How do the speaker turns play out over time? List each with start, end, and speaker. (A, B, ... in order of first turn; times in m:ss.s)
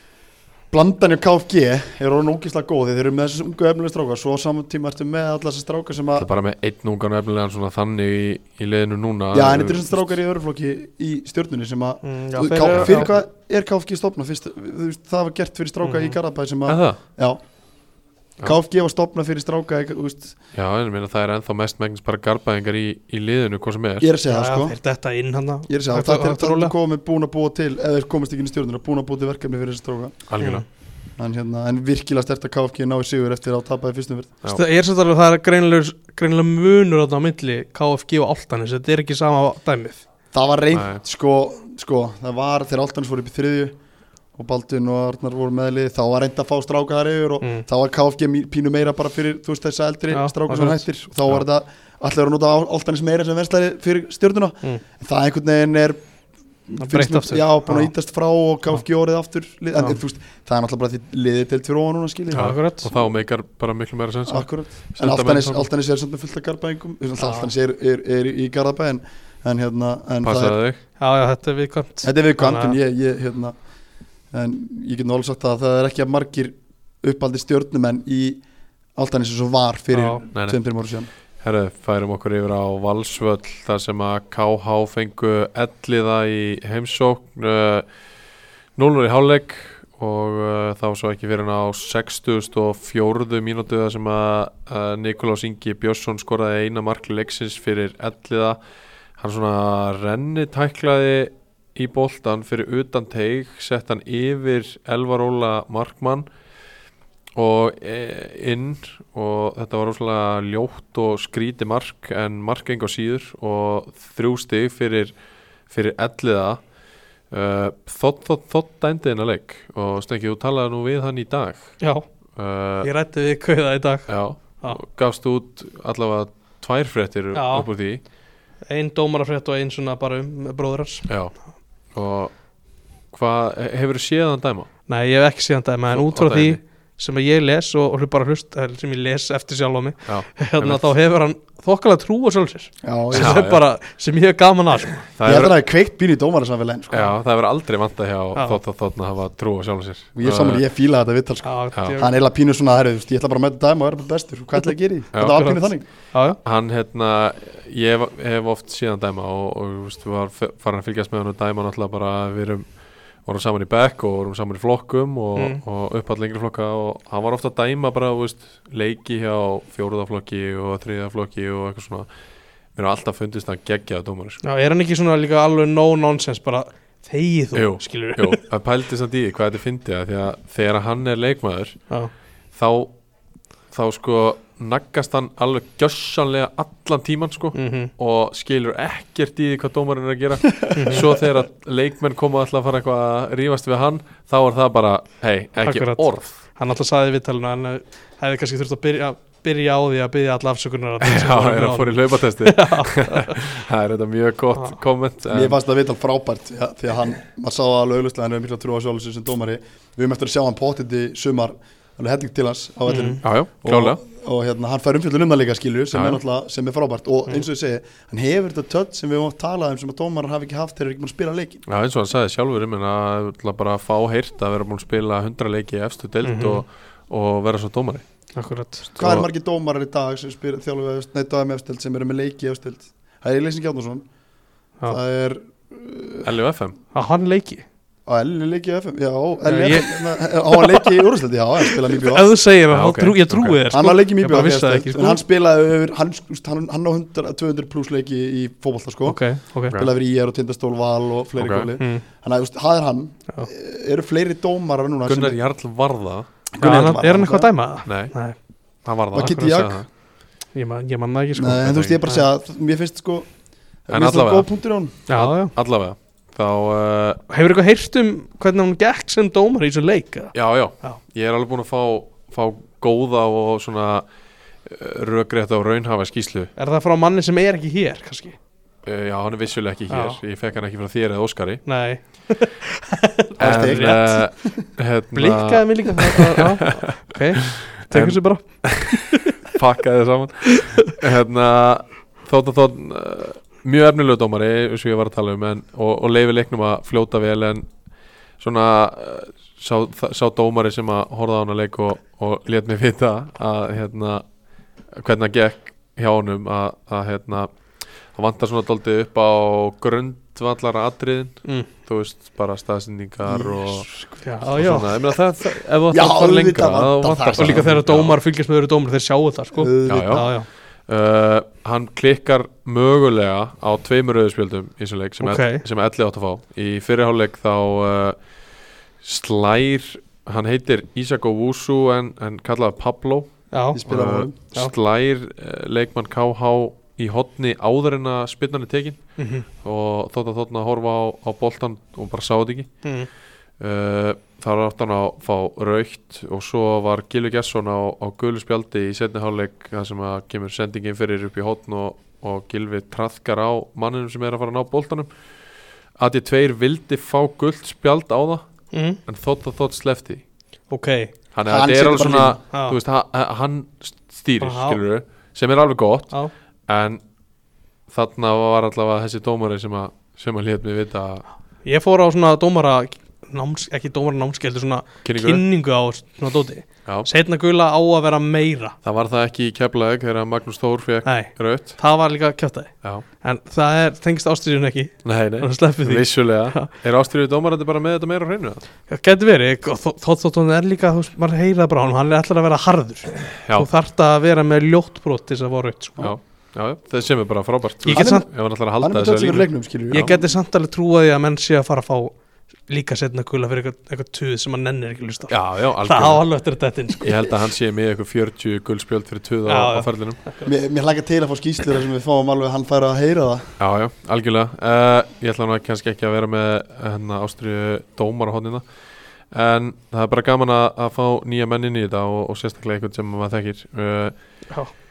0:00.7-0:06.3 A
0:06.2-0:10.2 B
0:09.3-0:17.5 A
0:12.0-0:13.1 C
0:12.7-0:13.1 B
0:15.8-0:16.2 C
0:16.7-0:17.0 B
0:18.4-0:20.4 A
0:20.5-0:24.1 B
0:24.0-0:24.8 A
0:24.3-0:26.7 C
0:25.7-0:30.2 A
0:30.3-0:30.6 B
0:30.4-0:30.6 C
0:31.2-0:34.4 A
0:34.5-0:40.0 C
0:40.3-0:43.8 A
0:40.7-0:41.0 B
0:44.3-0:56.0 A
0:47.4-0:47.7 C
0:50.1-0:50.8 C
0:56.7-1:02.5 A
0:56.8-0:57.9 C
1:02.3-1:05.7 B
1:02.3-1:02.9 C
1:04.3-1:10.6 A
1:07.2-1:07.5 C
1:10.2-1:10.8 B
1:11.0-1:12.8 C
1:12.0-1:13.5 A
1:14.3-1:18.4 A
1:19.0-1:21.1 A
1:19.9-1:20.2 C
1:20.3-1:20.6 B
1:21.4-1:27.9 B
1:28.8-1:38.6 B
1:39.2-1:46.3 B
1:47.4-1:55.1 B
1:55.7-1:56.6 B
1:57.3-2:01.8 B
2:01.8-2:02.1 C
2:02.3-2:02.9 B
2:02.8-2:04.8 C
2:04.1-2:08.0 B
2:07.3-2:07.7 C
2:08.7-2:11.1 C
2:11.1-2:11.4 B
2:11.9-2:12.4 B
2:13.1-2:14.7 B
2:14.9-2:25.1 C
2:15.9-2:16.6 B
2:20.1-2:20.9 B
2:22.8-2:23.4 A
2:23.1-2:23.6 B
2:25.1-2:25.6 B
2:25.2-2:27.1 A
2:26.9-2:30.6 B
2:30.2-2:35.9 A
2:31.4-2:32.1 C
2:31.7-2:32.0 B
2:35.1-2:35.4 B
2:35.2-2:36.4 C
2:36.4-2:42.7 B
2:43.2-2:52.1 B
2:45.4-2:45.6 C
2:52.7-2:54.4 B
2:54.4-2:58.4 C
2:57.5-3:01.8 B
3:02.5-3:03.0 B
3:03.7-3:16.4 B
3:07.6-3:07.9 C
3:10.6-3:11.2 A
3:10.8-3:11.1 C
3:15.6-3:23.4 C
3:21.0-3:25.6 B
3:25.3-3:41.6 A
3:32.9-3:33.2 C
3:33.2-3:34.0 B
3:35.9-3:36.2 B
3:41.7-3:48.0 B
3:46.2-3:46.6 C
3:48.4-3:49.0 C
3:49.0-3:54.1 A
3:49.0-3:49.3 B
3:54.9-3:56.3 A
3:56.2-3:56.8 B
3:56.9-3:57.6 C
3:58.1-4:02.3 A
3:59.5-4:01.1 C
4:01.7-4:05.2 C
4:02.7-4:03.6 B
4:03.7-4:15.4 A
4:09.0-4:09.8 C
4:11.4-4:11.7 B
4:11.8-4:12.0 C
4:15.0-4:16.3 B
4:16.5-4:17.5 A
4:16.6-4:18.4 C
4:17.9-4:18.1 B
4:18.8-4:19.9 B
4:19.1-4:19.8 A
4:20.5-4:22.3 C
4:21.4-4:23.3 A
4:23.8-4:25.0 A
4:23.9-4:24.5 B
4:25.1-4:27.2 B
4:25.1-4:25.5 C
4:27.3-4:31.0 C
4:30.3-4:34.0 B
4:34.6-4:36.5 B
4:36.6-4:38.4 C
4:38.8-4:41.6 B
4:39.9-4:40.2 C
4:41.7-4:44.4 C
4:43.4-4:57.7 B
4:43.4-4:44.5 A
4:45.2-4:49.2 C
4:58.4-5:04.3 B
5:04.9-5:13.9 B
5:13.2-5:14.8 A
5:14.2-5:14.9 C
5:14.5-5:18.2 B
5:15.9-5:17.7 A
5:17.4-5:20.5 C
5:19.5-5:20.3 A
5:19.9-5:28.3 B
5:25.2-5:25.6 C
5:29.0-5:33.3 B
5:33.5-5:33.8 C
5:33.7-5:34.4 A
5:33.9-5:39.0 B
5:34.4-5:34.7 C
5:39.2-5:39.5 C
5:39.6-5:42.8 B
5:42.8-5:43.1 C
5:43.6-5:55.1 B
5:56.0-5:58.5 B
5:58.7-5:59.0 C
5:59.0-6:00.2 B
6:00.7-6:01.2 C
6:01.3-6:06.1 B
6:01.5-6:02.4 A
6:02.5-6:02.8 C
6:04.4-6:04.8 C
6:06.7-6:07.0 B
6:07.9-6:11.2 B
6:11.6-6:18.8 C
6:15.0-6:15.4 B
6:18.8-6:21.8 B
6:21.0-6:26.7 C
6:25.0-6:28.6 B
6:28.9-6:36.1 C
6:33.4-6:33.7 B
6:36.0-6:40.1 B
6:37.8-6:38.3 C
6:37.9-6:38.3 A
6:38.8-6:40.3 A
6:39.9-6:42.1 C
6:42.7-6:47.3 C
6:45.3-6:46.2 B
6:47.0-6:50.2 B
6:49.5-6:50.5 C
6:50.4-6:53.6 A
6:53.6-6:58.7 B
6:59.2-7:04.2 B